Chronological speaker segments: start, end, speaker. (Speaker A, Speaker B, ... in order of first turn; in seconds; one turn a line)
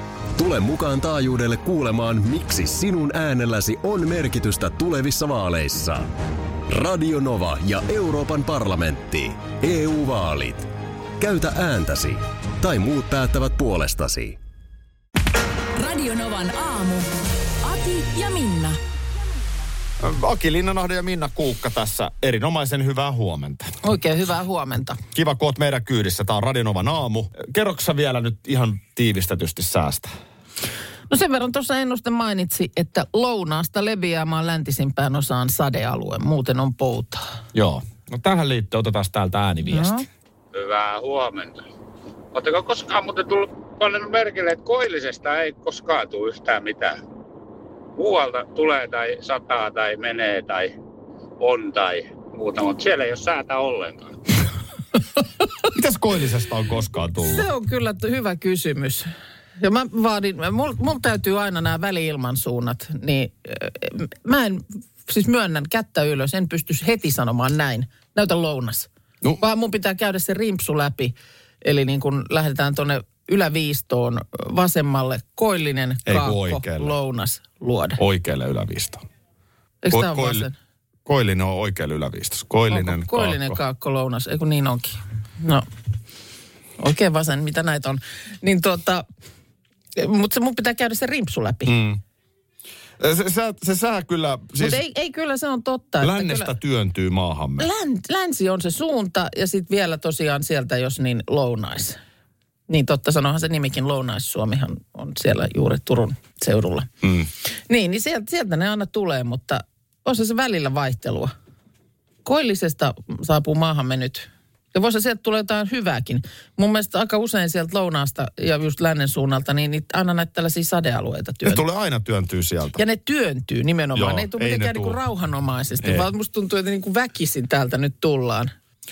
Speaker A: 0.4-6.1
Speaker A: 6.7-10.7
Speaker A: 11.2-14.4
Speaker B: 15.8-17.1
Speaker B: 17.6-18.8
Speaker C: 20.0-23.7
Speaker D: 23.8-25.0
Speaker C: 25.1-30.1
Speaker D: 31.1-37.2
Speaker C: 37.5-40.0
Speaker D: 39.6-40.0
Speaker E: 40.5-41.6
Speaker E: 42.3-47.0
Speaker E: 48.0-50.7
Speaker E: 51.4-54.1
Speaker C: 55.7-57.5
Speaker D: 57.3-78.0
Speaker C: 76.1-77.0
Speaker C: 78.0-79.0
Speaker D: 79.8-80.5
Speaker C: 79.9-80.5
Speaker C: 81.1-83.6
Speaker D: 82.7-85.7
Speaker D: 86.8-89.1
Speaker D: 90.0-91.7
Speaker C: 91.7-92.0
Speaker C: 93.0-94.8
Speaker D: 94.6-96.5
Speaker C: 96.0-97.7
Speaker D: 97.6-102.0
Speaker D: 102.7-106.9
Speaker D: 107.7-111.3
Speaker D: 112.2-121.6
Speaker C: 121.5-122.8
Speaker D: 122.8-128.5
Speaker C: 124.0-125.0